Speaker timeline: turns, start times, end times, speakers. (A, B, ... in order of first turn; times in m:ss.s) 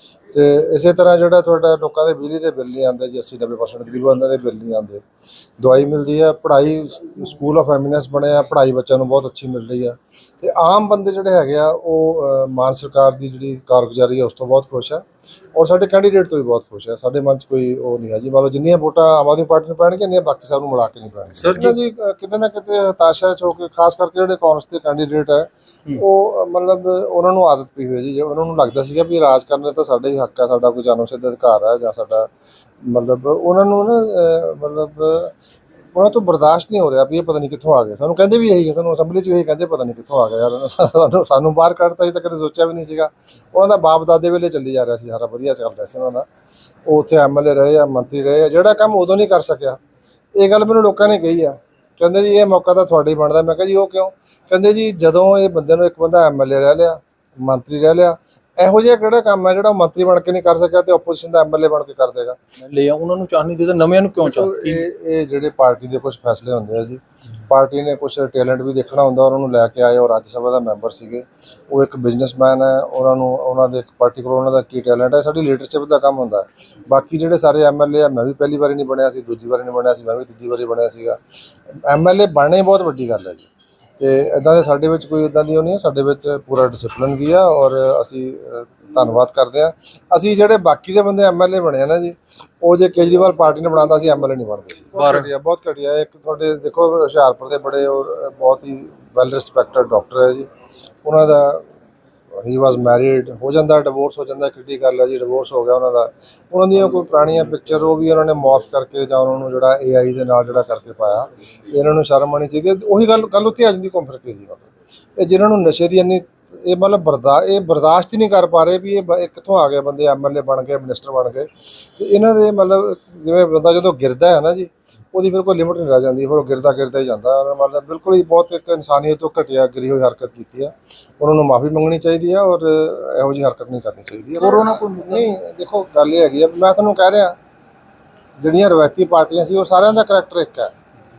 0:00.3-0:05.0 A
0:05.6-0:15.0 A
0:15.5-0:32.3 A
0:21.4-0:21.8 B
0:32.8-0:35.3 A
0:35.9-0:46.3 A
0:46.9-0:49.8 A
0:50.4-1:02.4 A
1:02.6-1:04.8 B
1:04.2-1:21.2 A
1:21.8-1:23.5 A
1:24.0-1:40.5 A
1:35.0-1:35.3 B
1:41.0-1:41.6 A
1:42.4-2:17.4 A
2:14.4-2:15.3 B
2:18.4-2:20.7 A